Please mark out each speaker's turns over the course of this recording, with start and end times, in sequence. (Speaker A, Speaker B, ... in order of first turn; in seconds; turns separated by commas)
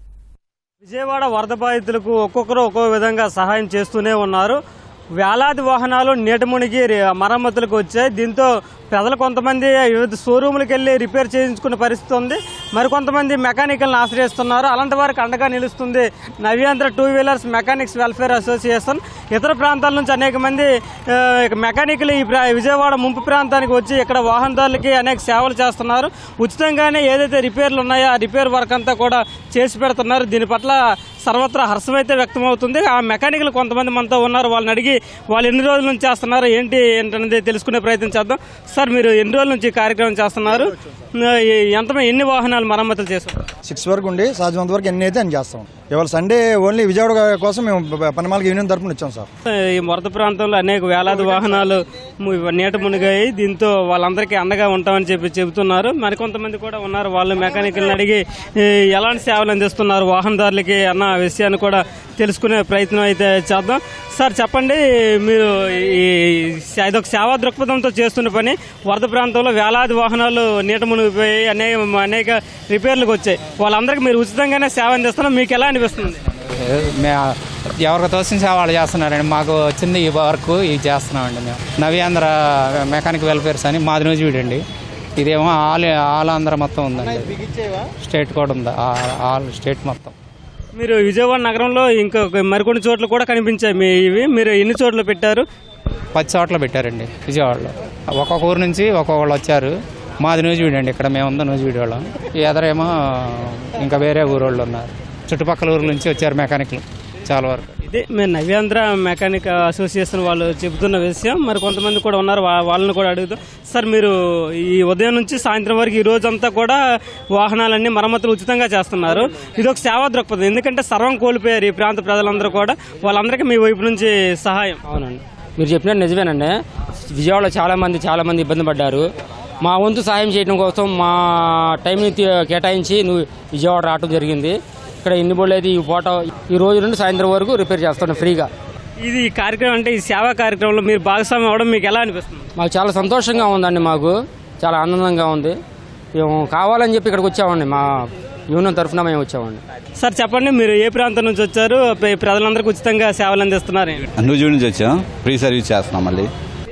Speaker A: 0.8-4.6, Speaker A: 5.2-43.5, Speaker B: 43.7-49.2, Speaker A: 49.6-76.2, Speaker C: 76.3-84.6, Speaker C: 85.2-87.4, Speaker C: 88.0-90.2, Speaker A: 90.8-95.5, Speaker C: 96.1-107.8, Speaker A: 107.8-116.8, Speaker A: 117.3-124.8, Speaker D: 124.9-126.6, Speaker D: 127.1-129.1, Speaker D: 129.6-138.5, Speaker A: 139.0-142.5, Speaker D: 142.6-145.6, Speaker D: 146.2-149.6, Speaker A: 150.0-154.1, Speaker E: 154.2-156.3